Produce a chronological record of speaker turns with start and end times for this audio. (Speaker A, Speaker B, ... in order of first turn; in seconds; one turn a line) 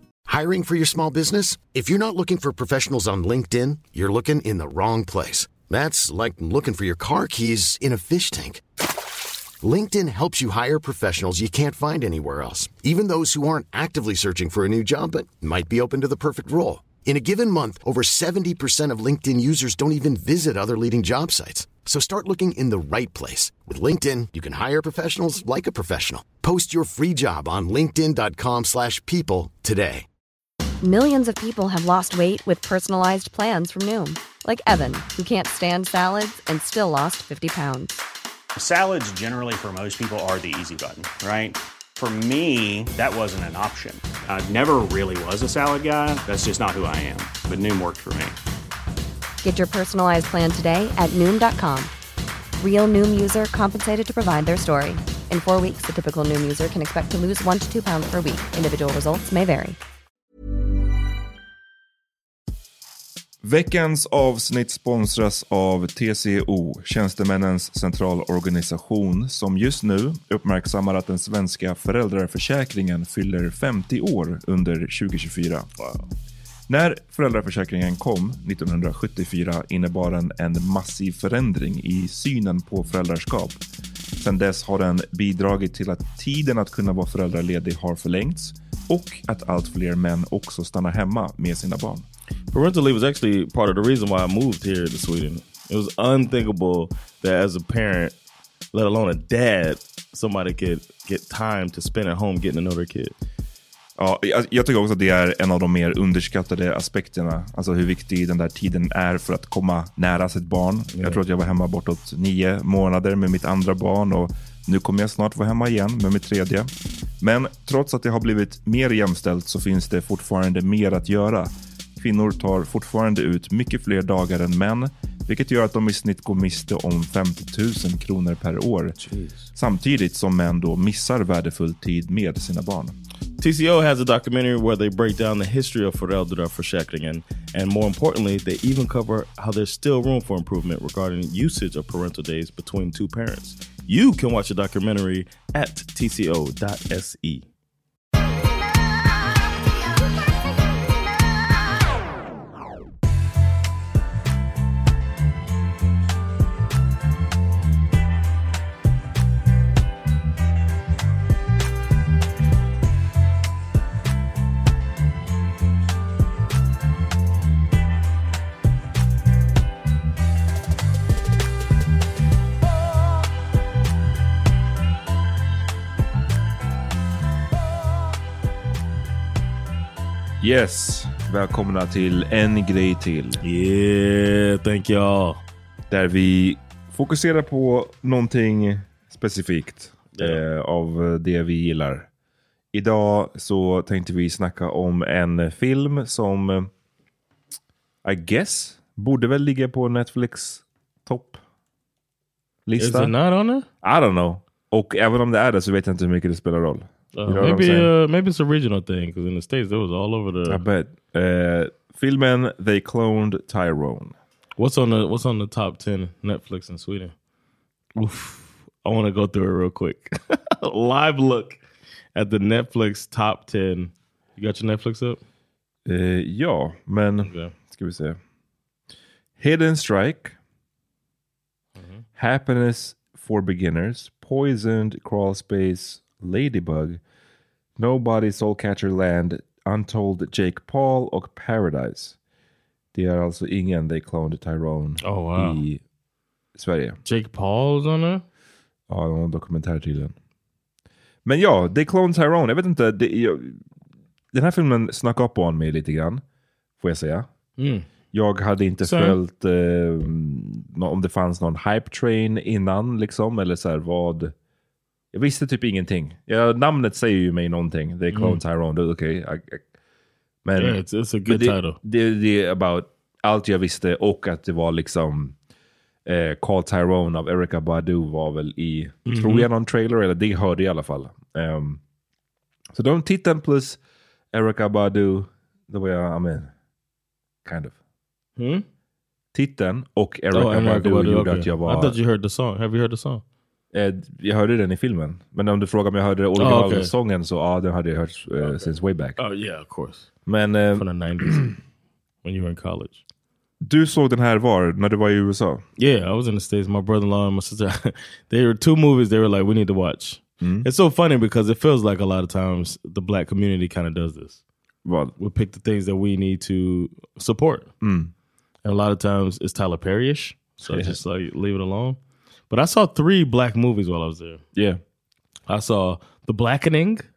Speaker A: 0.3-8.6
Speaker A: 9.6-30.1
Speaker B: 30.8-38.0
Speaker C: 38.5-48.4
Speaker B: 49.4-51.9
Speaker B: 52.6-59.8
Speaker D: 63.4-75.7
Speaker E: 75.8-76.1
Speaker D: 76.7-83.6
Speaker D: 84.2-92.0
Speaker E: 92.5-98.1
Speaker E: 98.7-103.1
Speaker D: 104.0-129.0
Speaker E: 110.9-111.2
Speaker E: 129.1-129.5
Speaker D: 129.5-132.9
Speaker E: 133.4-147.5
Speaker D: 180.4-183.4
Speaker E: 183.4-185.4
Speaker D: 185.9-192.1
Speaker E: 190.1-190.4
Speaker D: 192.7-196.7
Speaker D: 198.0-201.4
Speaker D: 202.7-203.1
Speaker E: 202.8-203.7
Speaker D: 203.8-207.9
Speaker E: 207.1-210.6
Speaker D: 210.5-214.2
Speaker E: 214.6-217.1
Speaker E: 217.9-221.6
Speaker E: 222.1-225.2
Speaker D: 225.8-228.2
Speaker E: 227.2-227.5
Speaker D: 229.4-230.3
Speaker D: 232.2-237.0
Speaker D: 237.8-242.2
Speaker D: 242.9-245.8
Speaker E: 245.0-245.6
Speaker D: 246.6-247.0
Speaker E: 247.0-248.2
Speaker D: 248.9-250.1
Speaker D: 251.2-253.6
Speaker D: 254.3-256.2
Speaker D: 256.8-257.3
Speaker E: 257.6-257.9
Speaker D: 258.1-264.3
Speaker E: 258.8-259.2
Speaker D: 265.1-269.6
Speaker E: 268.1-268.4
Speaker D: 270.4-275.4
Speaker E: 270.6-271.8
Speaker D: 276.1-281.8
Speaker E: 279.1-279.5
Speaker D: 282.7-283.8
Speaker D: 284.3-286.5
Speaker D: 287.4-287.7
Speaker E: 288.4-288.6
Speaker D: 289.3-292.0
Speaker E: 290.3-293.2
Speaker D: 293.7-299.2
Speaker E: 296.4-296.9
Speaker E: 298.4-300.1
Speaker D: 300.2-301.3
Speaker E: 300.7-301.6
Speaker E: 302.2-303.0
Speaker D: 303.6-305.6
Speaker E: 305.8-314.4
Speaker D: 310.4-310.7
Speaker D: 314.8-315.1
Speaker E: 315.2-317.7
Speaker D: 317.8-318.1
Speaker E: 318.6-322.0
Speaker D: 320.7-321.0
Speaker E: 322.5-324.4
Speaker D: 324.5-324.8
Speaker E: 325.5-327.0